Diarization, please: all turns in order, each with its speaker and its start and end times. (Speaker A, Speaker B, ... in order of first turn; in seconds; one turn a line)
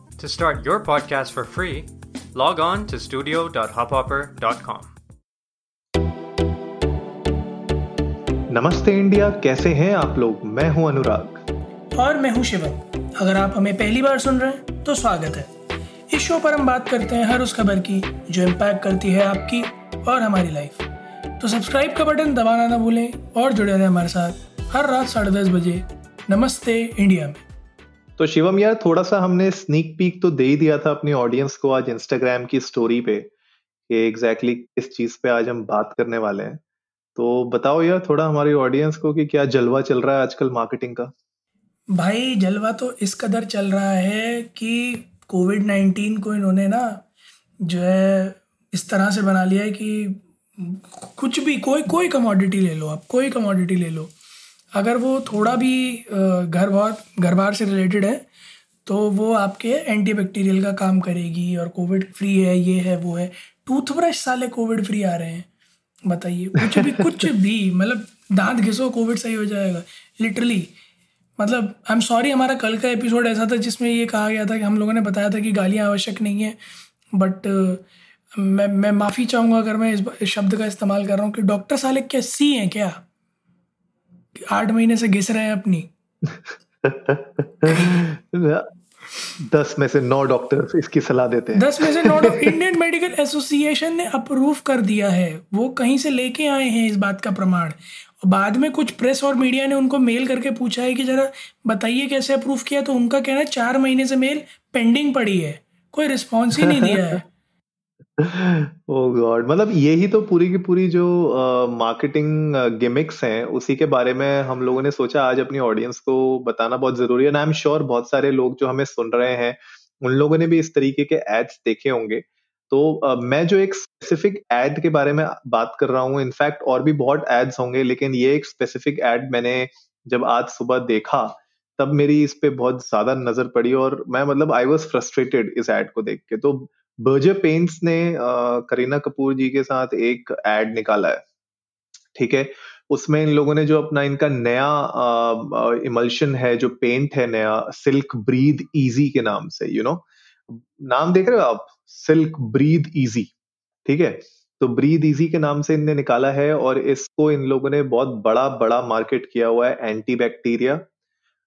Speaker A: 0.2-4.9
Speaker B: 8.5-11.4
Speaker C: 11.9-15.5
Speaker C: 16.1-20.9
Speaker C: 21.4-27.4
Speaker B: 28.2-33.3
Speaker B: 33.9-36.6
Speaker B: 37.1-41.1
Speaker C: 41.9-47.0
Speaker C: 47.6-54.1
Speaker C: 54.7-58.2
Speaker C: 58.9-65.5
Speaker C: 66.0-70.7
Speaker B: 66.6-67.2
Speaker C: 71.4-76.6
Speaker C: 77.1-77.8
Speaker C: 78.3-83.0
Speaker C: 84.4-85.9
Speaker B: 86.8-88.7
Speaker B: 89.4-92.5
Speaker C: 91.5-107.3
Speaker B: 106.6-107.0
Speaker B: 108.2-141.2
Speaker B: 142.1-153.3
Speaker B: 153.8-160.8